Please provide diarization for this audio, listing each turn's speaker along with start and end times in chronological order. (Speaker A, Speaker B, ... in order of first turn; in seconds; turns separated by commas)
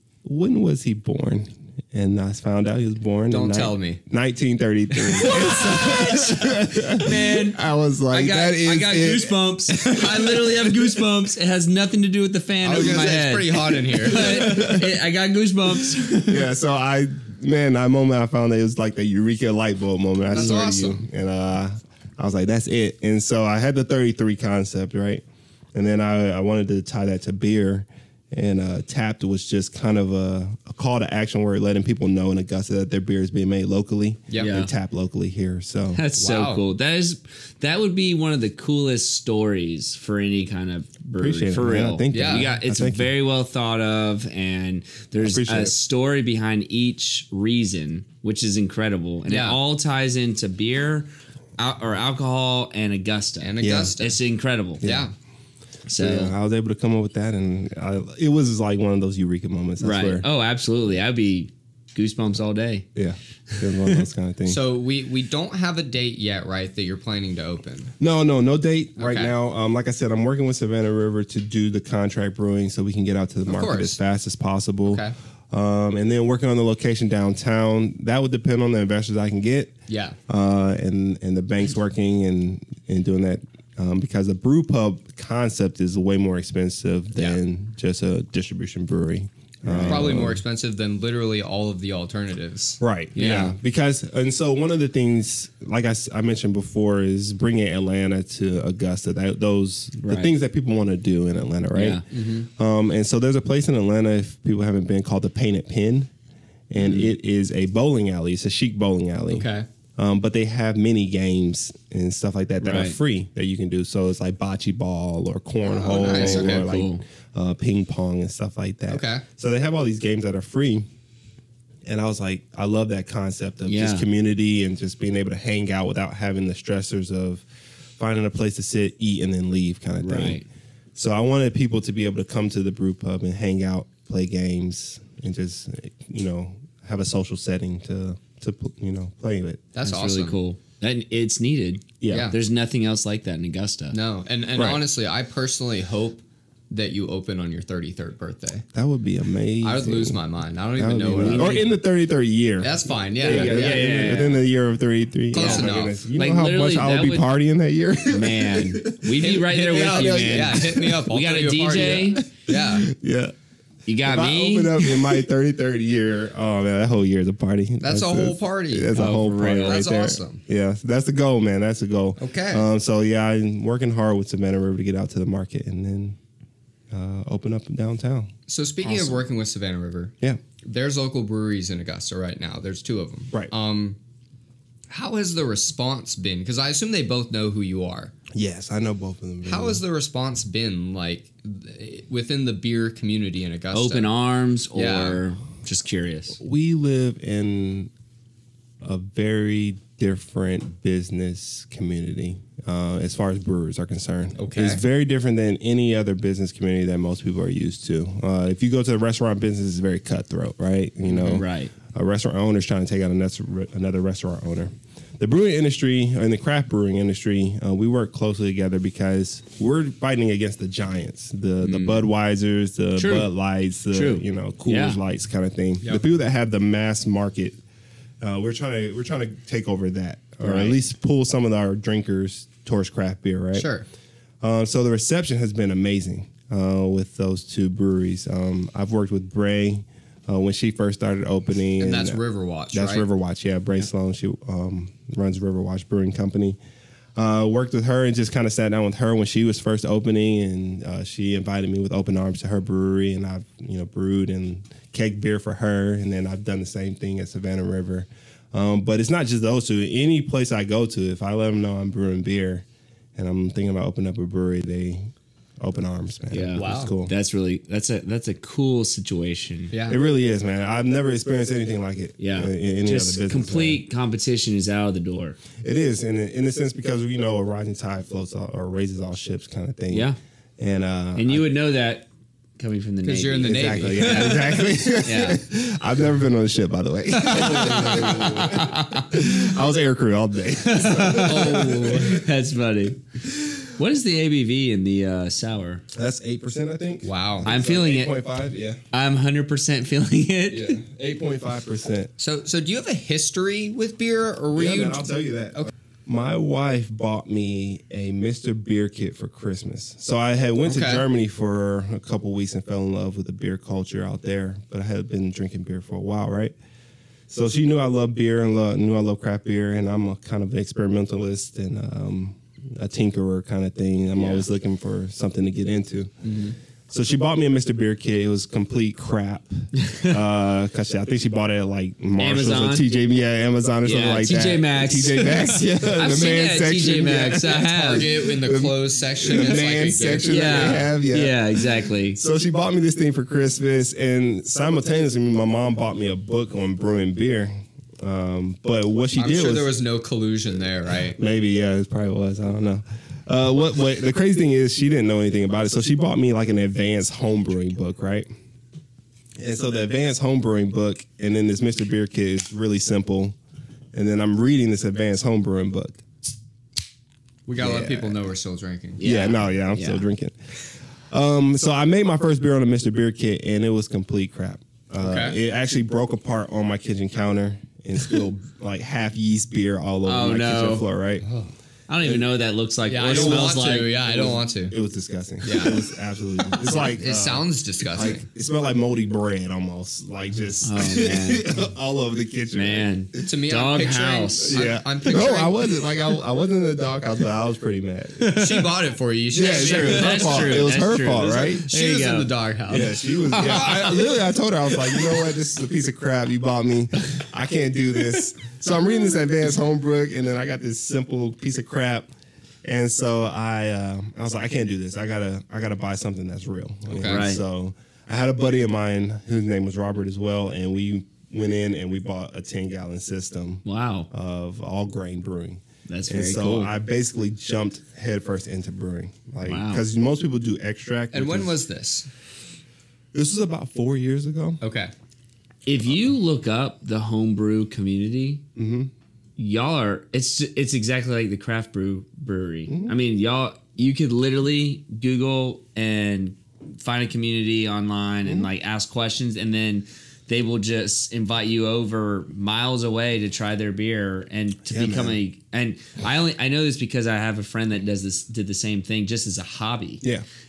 Speaker A: 0.2-10.9, Speaker B: 3.3-4.0, Speaker C: 5.1-16.5, Speaker B: 12.6-14.7, Speaker A: 14.1-14.9, Speaker A: 15.8-36.0, Speaker B: 20.3-21.0, Speaker C: 34.4-34.7, Speaker C: 35.9-54.8, Speaker B: 36.2-36.6, Speaker A: 41.2-43.1, Speaker B: 42.1-42.5, Speaker A: 45.2-45.7, Speaker B: 49.3-49.6, Speaker B: 53.4-54.2, Speaker A: 53.6-53.9, Speaker A: 54.8-55.1, Speaker B: 54.8-55.1, Speaker C: 55.9-56.3, Speaker A: 55.9-60.2, Speaker C: 59.8-62.9, Speaker A: 62.9-64.6, Speaker C: 63.5-63.9, Speaker B: 64.5-67.9, Speaker A: 68.0-79.7, Speaker B: 69.0-69.3, Speaker B: 73.5-74.0, Speaker B: 74.8-75.1, Speaker B: 79.9-80.2, Speaker A: 80.3-90.4, Speaker C: 89.6-90.2, Speaker B: 89.8-92.8, Speaker A: 92.8-106.1, Speaker C: 93.2-93.5, Speaker C: 100.0-100.3, Speaker C: 101.7-102.0, Speaker B: 102.1-102.4, Speaker A: 106.7-120.9, Speaker C: 106.8-107.1, Speaker B: 109.3-109.7, Speaker C: 112.6-113.0, Speaker B: 115.7-116.7, Speaker C: 115.9-117.0, Speaker B: 118.9-119.2, Speaker A: 121.8-127.4, Speaker C: 123.7-124.1, Speaker A: 128.0-130.4, Speaker C: 130.0-130.4, Speaker A: 130.9-139.6, Speaker B: 139.7-140.4, Speaker C: 139.8-144.0, Speaker A: 142.0-142.3, Speaker B: 142.1-142.3, Speaker B: 143.9-148.6, Speaker A: 144.6-144.8, Speaker A: 148.7-150.2, Speaker B: 149.6-151.7, Speaker A: 150.8-161.0, Speaker C: 151.1-151.6, Speaker B: 152.6-154.1, Speaker C: 153.2-154.4, Speaker B: 155.3-156.0, Speaker C: 155.3-157.3, Speaker C: 158.1-162.2, Speaker B: 159.2-162.9, Speaker A: 161.8-163.3, Speaker C: 163.9-165.0, Speaker A: 164.0-176.2, Speaker B: 167.8-170.4, Speaker C: 168.9-169.8, Speaker B: 172.2-172.7, Speaker A: 176.9-178.3, Speaker B: 178.5-184.0, Speaker B: 184.9-188.1, Speaker A: 188.3-189.8, Speaker B: 189.4-194.1, Speaker C: 193.7-196.4, Speaker B: 194.7-195.2, Speaker A: 196.4-197.9, Speaker A: 198.8-227.6, Speaker B: 204.4-204.8, Speaker C: 211.1-211.7, Speaker C: 221.6-222.1, Speaker C: 223.0-223.3, Speaker C: 223.9-225.0, Speaker A: 228.2-233.7, Speaker C: 230.4-230.8, Speaker B: 233.5-233.8, Speaker A: 234.4-242.2, Speaker B: 241.8-243.1, Speaker A: 242.7-246.6, Speaker A: 247.2-267.1, Speaker C: 266.3-269.7, Speaker B: 266.6-266.9, Speaker B: 269.7-270.0, Speaker A: 269.9-273.8, Speaker C: 272.2-275.4, Speaker A: 275.6-281.5, Speaker C: 279.9-280.2, Speaker C: 281.1-284.4, Speaker B: 283.0-284.6, Speaker A: 283.4-292.2, Speaker C: 285.0-285.4, Speaker C: 287.1-289.3, Speaker C: 290.6-295.8, Speaker A: 295.9-298.8, Speaker B: 297.0-297.5, Speaker C: 297.4-298.1, Speaker C: 298.9-300.8, Speaker A: 300.5-302.1, Speaker B: 302.2-305.7, Speaker A: 304.5-316.5, Speaker B: 310.6-311.1, Speaker A: 317.3-326.3, Speaker C: 324.2-324.4, Speaker A: 326.9-349.7, Speaker C: 329.8-330.2, Speaker C: 332.2-332.9, Speaker C: 333.8-338.1, Speaker B: 337.8-340.8, Speaker C: 340.3-342.2, Speaker B: 349.1-351.2, Speaker A: 351.1-358.3, Speaker A: 359.4-363.4, Speaker A: 363.9-366.0, Speaker B: 367.5-369.0, Speaker A: 367.6-368.1, Speaker C: 369.0-370.0, Speaker A: 369.0-370.4, Speaker A: 371.1-381.2, Speaker B: 375.0-375.4, Speaker C: 380.1-380.9, Speaker C: 381.9-383.9, Speaker B: 382.9-384.7, Speaker A: 383.1-393.3, Speaker B: 385.4-385.8, Speaker B: 386.6-388.2, Speaker C: 390.6-391.5, Speaker C: 392.5-394.6, Speaker B: 393.2-395.6, Speaker A: 394.5-398.6, Speaker C: 398.2-398.5, Speaker B: 398.3-403.9, Speaker A: 399.3-401.6, Speaker C: 399.4-404.0, Speaker A: 402.7-412.1, Speaker A: 412.6-431.5, Speaker B: 416.9-417.3, Speaker C: 417.1-417.4, Speaker C: 423.6-424.1, Speaker C: 425.9-426.7, Speaker C: 429.4-429.8, Speaker B: 431.1-432.1, Speaker A: 433.1-434.6, Speaker B: 434.6-434.9, Speaker C: 435.6-438.4, Speaker A: 438.6-438.9, Speaker C: 439.4-460.0, Speaker A: 442.7-442.9, Speaker A: 448.2-448.5, Speaker A: 454.7-455.2